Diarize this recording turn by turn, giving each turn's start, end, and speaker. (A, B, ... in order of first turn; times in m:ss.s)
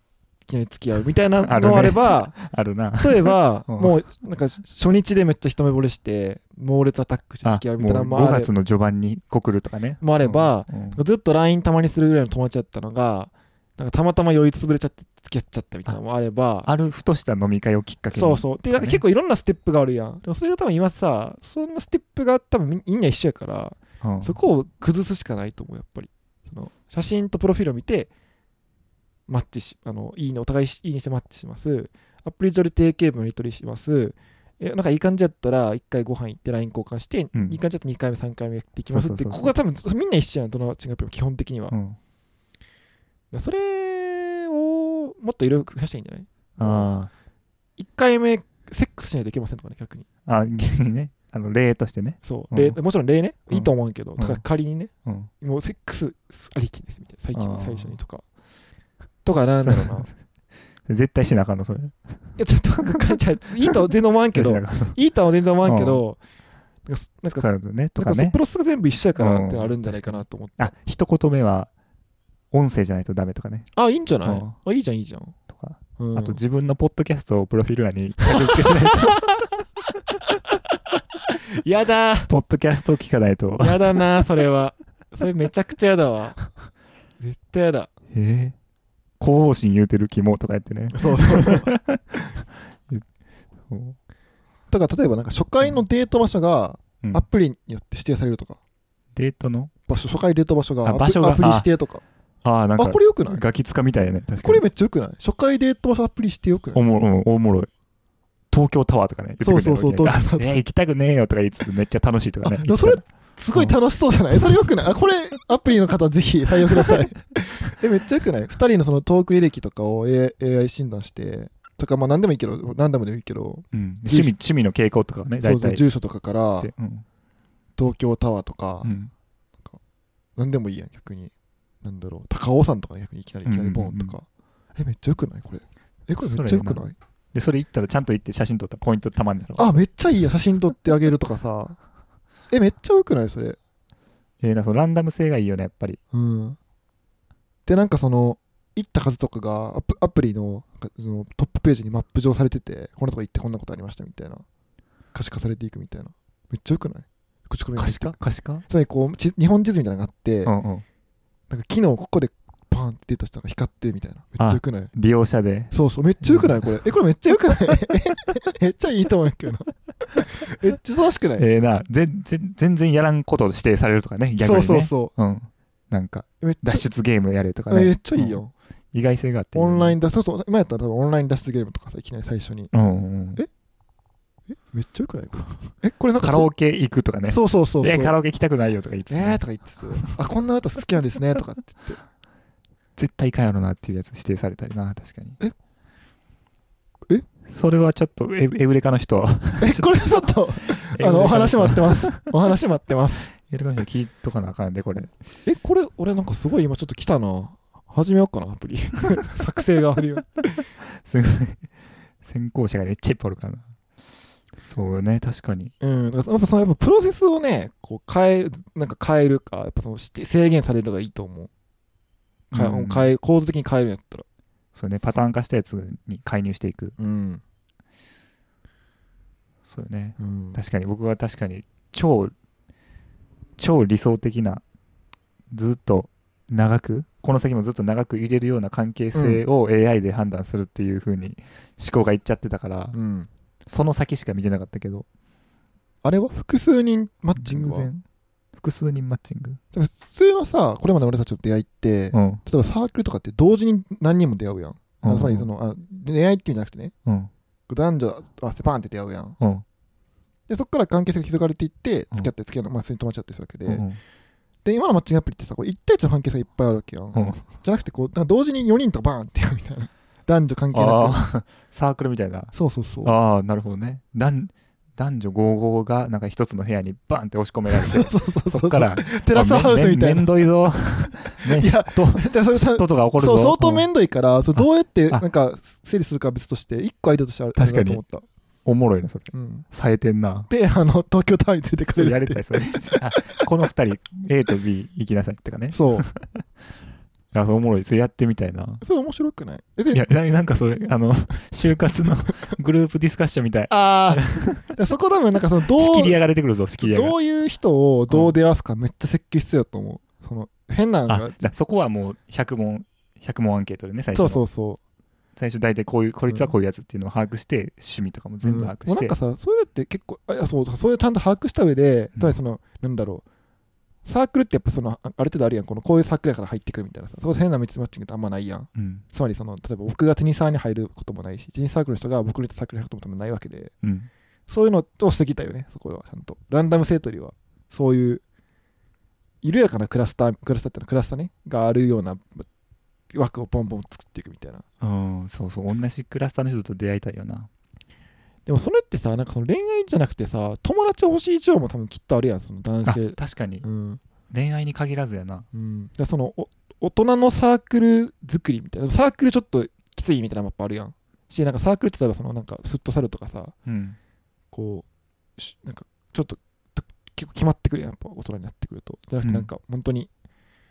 0:00.5-0:02.4 A
0:01.4-0:04.0 B
0:03.0-0:08.5 A
0:07.4-0:11.0 B
0:10.0-0:16.7 A
0:16.6-0:19.0 B
0:18.1-0:28.1 A
0:24.0-0:24.4 B
0:29.3-0:41.8 A
0:37.3-0:37.6 B
0:38.9-0:39.5 B
0:41.7-0:42.0 B
0:43.3-0:46.9 A
0:46.6-0:47.1 B
0:47.8-0:50.1 A
0:50.2-0:52.8 B
0:52.2-0:58.2 A
0:53.5-0:54.4 B
0:55.0-0:55.3 B
0:57.3-0:58.0 B
0:59.2-1:00.1 A
0:59.6-1:00.1 B
1:00.9-1:02.2 B
1:02.4-1:06.2 A
1:04.3-1:05.0 B
1:05.6-1:06.0 B
1:06.9-1:10.7 A
1:07.4-1:08.4 B
1:09.2-1:11.7 B
1:12.5-1:13.7 B
1:13.8-1:15.4 A
1:14.2-1:14.6 B
1:15.5-1:19.2 B
1:16.0-1:16.4 A
1:18.4-1:19.4 A
1:21.5-1:22.3 A
1:22.3-1:24.0 B
1:23.6-1:26.5 A
1:27.2-1:27.9 A
1:28.1-1:28.6 B
1:29.2-1:33.0 B
1:30.9-1:31.7 A
1:33.7-1:34.0 B
1:34.7-1:38.6 A
1:39.2-1:39.7 B
1:39.9-1:42.0 A
1:40.8-1:41.7 B
1:42.4-1:44.6 B
1:42.8-1:43.4 A
1:44.4-1:46.8 A
1:46.8-1:47.7 B
1:48.5-1:53.0 B
1:49.4-1:50.6 A
1:52.4-2:04.4 A
1:54.4-1:54.6 B
1:56.7-1:57.0 B
2:03.7-2:05.8 B
2:05.4-2:06.7 A
2:06.6-2:07.0 B
2:07.8-2:08.9 A
2:08.8-2:09.1 B
2:10.4-2:11.3 A
2:11.8-2:17.0 A
2:13.4-2:14.2 B
2:16.2-2:19.8 B
2:19.6-2:21.8 A
2:22.5-2:23.6 A
2:24.4-2:26.0 B
2:26.1-2:26.6 A
2:27.7-2:34.4 A
2:35.1-2:38.2 A
2:37.8-2:38.6 B
2:38.7-2:40.5 A
2:40.5-2:40.8 B
2:41.5-2:44.9 A
2:44.4-2:46.6 B
2:45.7-2:51.4 A
2:51.4-2:58.4 B
2:54.4-2:55.1 A
2:56.4-2:56.8 A
2:57.7-2:58.5 A
2:58.9-3:00.0 B
2:59.6-3:02.7 A
3:02.7-3:03.4 B
3:04.5-3:06.5 A
3:06.2-3:09.4 B
3:07.3-3:08.2 A
3:09.1-3:12.0 A
3:13.0-3:15.4 B
3:17.4-3:22.2 B
3:19.6-3:23.3 A
3:23.4-3:25.1 B
3:25.4-3:30.6 A
3:30.8-3:31.7 B
3:32.2-3:33.7 B
3:34.6-3:35.7 B
3:35.8-3:41.5 A
3:42.5-3:44.2 A
3:42.5-3:43.1 B
3:44.7-3:47.0 B
3:47.0-3:47.4 A
3:49.6-3:52.3 B
3:50.2-3:50.6 A
3:53.6-3:54.6 B
3:55.5-4:03.0 B
3:59.1-3:59.4 A
4:02.9-4:03.3 A
4:03.7-4:05.1 B
4:06.0-4:07.9 A
4:07.4-4:08.0 B
4:08.6-4:09.6 B
4:09.7-4:16.9 A
4:12.1-4:12.4 B
4:15.0-4:15.5 B
4:17.0-4:17.3 B
4:17.7-4:19.4 A
4:19.4-4:19.6 B
4:20.5-4:23.8 A
4:23.7-4:24.0 B
4:24.6-4:31.2 A
4:27.1-4:27.4 B
4:30.7-4:32.5 B
4:32.5-4:33.1 A
4:33.0-4:43.9 B
4:37.7-4:40.4 A
4:41.4-4:48.2 A
4:44.6-4:45.2 B
4:47.6-4:48.0 B
4:48.6-4:50.5 B
4:49.3-4:49.7 A
4:50.5-4:53.4 A
4:51.9-4:56.4 B
4:55.7-4:56.1 A
4:57.3-4:58.8 B
4:58.8-5:00.0 A
4:59.9-5:04.6 B
5:03.7-5:06.2 A
5:05.7-5:07.2 B
5:06.8-5:11.5 A
5:08.1-5:08.3 B
5:11.1-5:14.4 B
5:14.1-5:14.8 A
5:15.4-5:19.2 B
5:18.4-5:23.2 A
5:24.0-5:33.7 A
5:28.8-5:29.0 B
5:33.8-5:34.1 B
5:34.5-5:38.2 A
5:39.4-5:42.5 A
5:43.1-5:44.6 A
5:44.8-5:47.5 B
5:48.5-5:54.0 A
5:52.8-5:53.6 B
5:54.3-5:55.5 B
5:55.5-6:03.6 A
6:03.7-6:04.0 B
6:04.5-6:04.9 A
6:05.4-6:10.1 A
6:09.2-6:09.5 B